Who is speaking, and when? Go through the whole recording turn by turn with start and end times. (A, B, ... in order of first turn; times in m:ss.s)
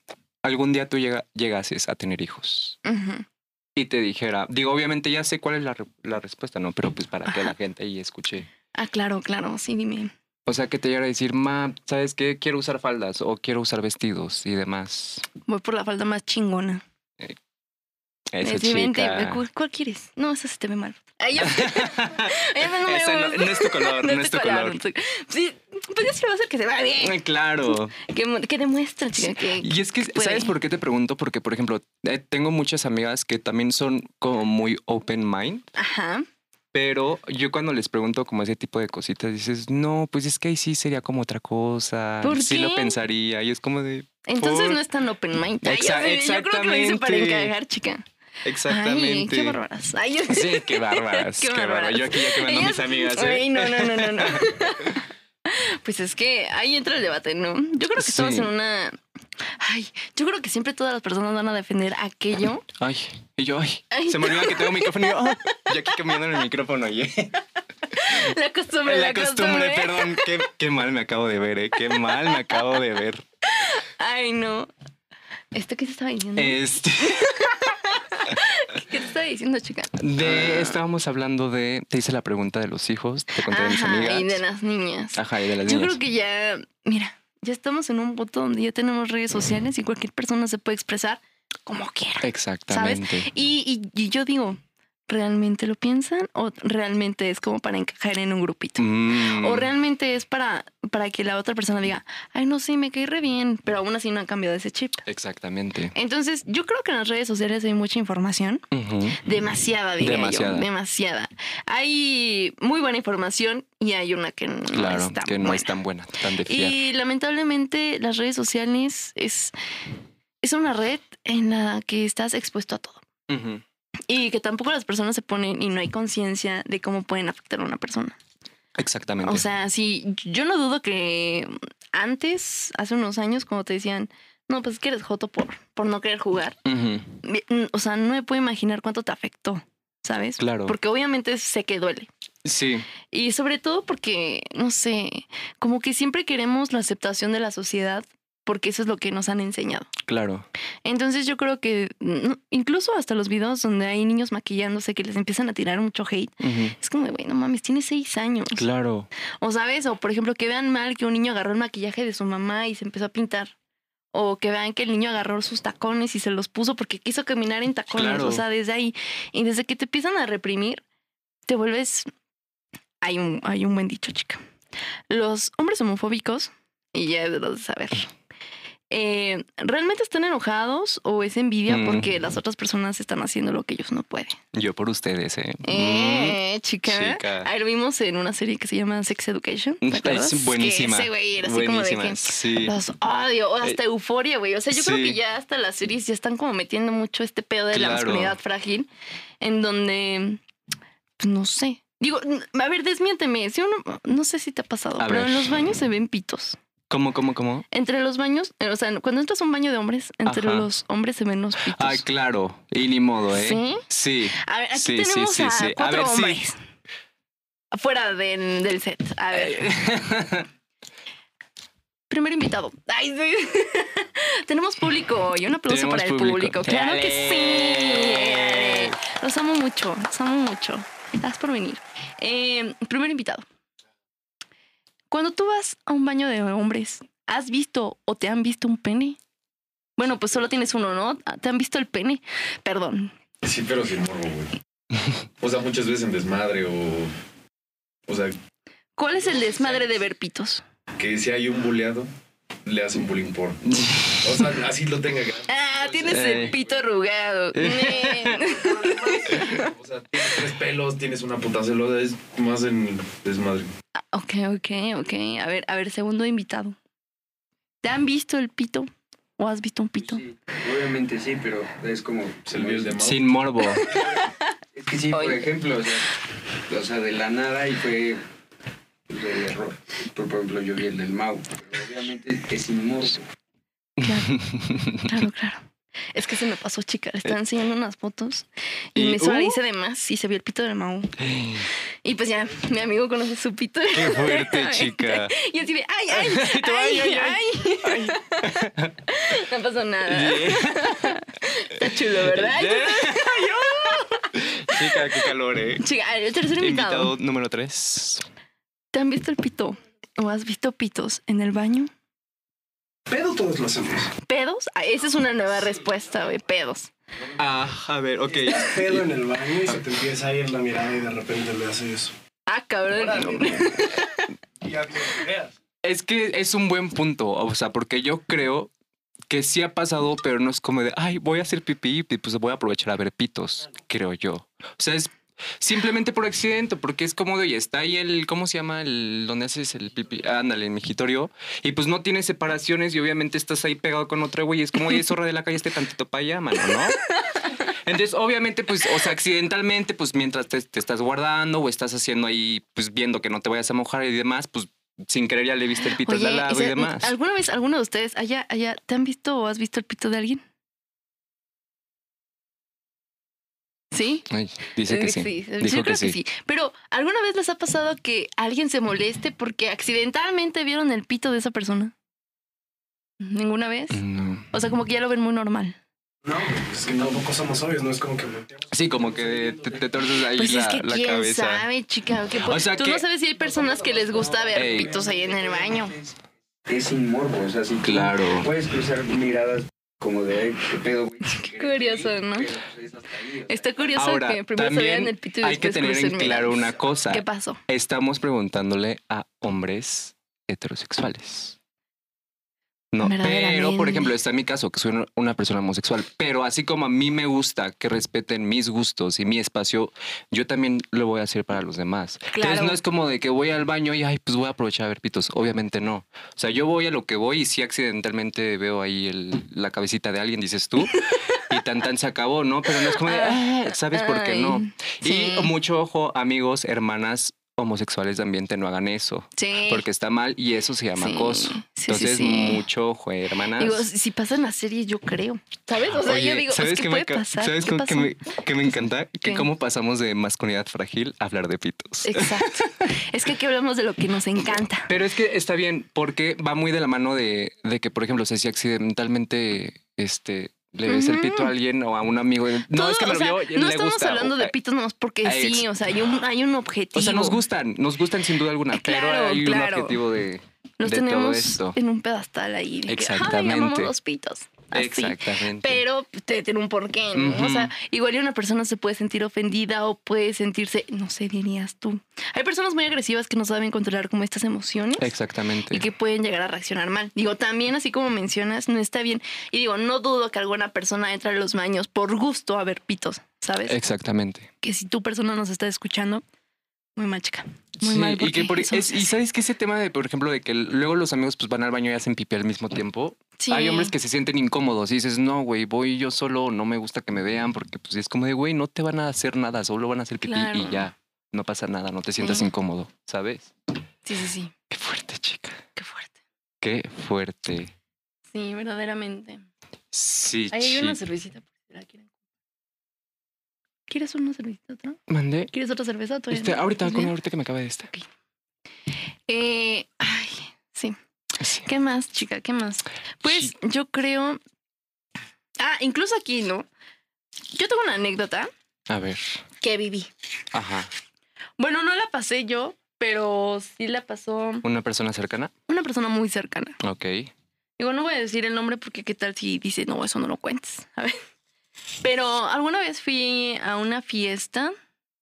0:00.4-0:02.8 A
0:02.8-0:03.3 B
0:03.8-0:08.5 A
0:07.3-0:07.5 B
0:08.8-0:10.1 B
0:10.5-0:15.3 A
0:15.5-0:16.8 B
0:18.3-0:19.4 A
0:18.4-0:27.2 B
0:21.4-0:24.8 A
0:27.0-0:28.0 A
0:28.0-0:30.5 B
0:29.2-0:35.6 A
0:35.8-0:36.2 B
0:36.7-0:44.8 A
0:42.2-0:43.0 B
0:44.3-0:48.0 B
0:45.6-0:47.5 A
0:48.4-0:49.6 A
0:48.7-1:02.7 B
0:50.3-0:54.9 A
0:58.0-0:58.5 A
1:02.8-1:07.4 A
1:03.9-1:05.7 B
1:07.9-1:10.4 B
1:08.8-1:13.2 A
1:11.9-1:12.6 B
1:13.5-1:14.7 B
1:15.5-1:20.8 B
1:16.4-1:17.7 A
1:20.0-1:24.4 A
1:23.4-1:45.0 B
1:25.2-1:26.0 A
1:32.2-1:33.3 A
1:38.8-1:39.7 A
1:45.1-1:45.9 A
1:45.9-1:48.7 B
1:48.7-1:49.2 A
1:49.2-1:55.7 B
1:50.0-1:50.7 A
1:54.7-1:56.8 A
1:56.4-1:59.5 B
2:00.4-2:03.0 B
2:03.3-2:03.6 A
2:04.1-2:08.2 B
2:08.8-2:09.5 A
2:09.2-2:16.6 B
2:16.6-2:17.1 A
2:17.2-2:22.1 B
2:20.4-2:20.8 A
2:22.4-2:22.9 A
2:23.1-2:29.9 B
2:30.1-2:30.5 A
2:30.8-2:38.6 B
2:36.4-2:36.8 A
2:38.5-2:39.1 A
2:39.4-2:43.5 B
2:44.1-2:50.8 B
2:48.0-2:48.4 A
2:51.5-2:52.1 B
2:53.0-2:54.4 B
2:55.1-2:58.1 B
2:58.9-3:04.4 B
3:01.7-3:02.2 A
3:04.5-3:07.5 A
3:05.6-3:18.9 B
3:09.8-3:12.8 A
3:14.7-3:15.2 A
3:17.7-3:18.4 A
3:19.4-3:20.4 B
3:21.2-3:26.6 B
3:25.0-3:25.6 A
3:26.9-3:27.7 A
3:27.7-3:32.0 B
3:30.2-3:30.7 A
3:31.7-3:36.4 A
3:33.3-3:33.8 B
3:34.4-3:36.6 B
3:37.7-3:39.7 B
3:39.3-3:40.5 A
3:42.1-3:53.4 B
3:45.7-3:49.0 A
3:55.1-3:59.2 B
4:00.0-4:03.1 B
4:03.4-4:04.5 C
4:05.4-4:07.1 C
4:08.1-4:08.3 C
4:09.0-4:10.6 B
4:11.0-4:12.1 C
4:12.6-4:16.2 C
4:13.6-4:14.5 A
4:15.5-4:19.7 B
4:16.1-4:16.6 A
4:17.5-4:18.4 A
4:18.6-4:23.7 C
4:24.1-4:26.8 B
4:27.8-4:30.2 B
4:30.0-4:33.0 D
4:32.5-4:33.2 C
4:33.0-4:33.9 A
4:33.6-4:34.5 B
4:34.0-4:34.2 D
4:34.7-4:36.1 D
4:35.1-4:35.4 B
4:36.7-4:38.2 D
4:39.1-4:43.2 D
4:44.0-4:45.1 A
4:44.0-4:44.4 B
4:45.0-4:51.2 B
4:49.0-4:49.6 A
4:51.2-4:51.7 A
4:52.0-4:58.6 B
4:53.9-4:55.4 A
4:56.1-4:59.0 A
4:59.1-5:05.2 B
5:00.1-5:01.2 A
5:01.8-5:05.8 A
5:05.8-5:07.1 B
5:06.6-5:08.3 A
5:08.9-5:11.9 B
5:13.1-5:14.1 E
5:14.2-5:16.9 B
5:17.4-5:19.1 A
5:18.3-5:22.1 E
5:22.5-5:24.3 B
5:23.0-5:23.8 E
5:24.6-5:25.5 E
5:25.8-5:28.7 A
5:29.3-5:47.0 A
5:47.1-5:47.4 B
5:47.7-5:57.1 A
5:56.0-6:00.4 B
6:03.9-6:04.3 B
6:04.3-6:06.2 A
6:04.9-6:11.9 B
6:13.2-6:15.8 B
6:13.9-6:14.5 A
6:16.2-6:19.5 E
6:18.7-6:21.7 A
6:20.3-6:26.0 B
6:22.3-6:23.0 A
6:23.4-6:34.0 D
6:24.5-6:25.0 A
6:27.8-6:28.5 A
6:31.2-6:32.5 B
6:33.5-6:37.6 B
6:34.0-6:41.6 A
6:42.9-7:13.9 A
6:43.0-6:44.1 B
6:52.3-6:52.8 B
7:00.9-7:01.4 B
7:02.7-7:05.5 B
7:09.4-7:09.8 B
7:11.0-7:12.6 B
7:13.6-7:19.5 B
7:15.9-7:22.8 A
7:22.0-7:24.9 B
7:24.9-7:34.5 A
7:30.9-7:31.5 B
7:32.7-7:37.4 B
7:35.2-7:35.7 A
7:37.0-7:41.8 A
7:38.7-7:40.0 B
7:40.8-7:55.1 B
7:42.9-7:43.9 A
7:44.7-7:45.8 A
7:47.1-7:47.7 A
7:55.0-7:55.9 A
7:55.7-8:03.8 B
8:03.7-8:04.5 A
8:04.6-8:06.2 B
8:07.0-8:09.0 B
8:07.8-8:23.5 A
8:13.4-8:13.9 B
8:20.2-8:20.9 B
8:22.2-8:22.5 B
8:24.0-8:24.5 B
8:24.7-8:25.6 A
8:25.8-8:26.2 B
8:26.6-8:27.7 A
8:28.3-8:29.5 B
8:29.9-8:31.0 A
8:30.5-8:32.1 B
8:33.9-8:35.0 B
8:35.1-8:35.5 A
8:35.5-8:37.1 B
8:36.3-8:37.9 A
8:39.3-8:41.0 B
8:41.4-8:41.7 A
8:41.6-8:44.4 B
8:43.2-8:43.5 A
8:45.6-8:46.7 B
8:47.5-8:48.5 B
8:48.9-8:49.4 A
8:49.6-8:50.1 B
8:50.5-8:50.9 A
8:51.6-8:54.6 B
8:54.6-8:55.5 A
8:55.7-8:56.8 B
8:56.8-8:57.3 A
8:57.8-9:01.2 B
9:02.0-9:04.7 B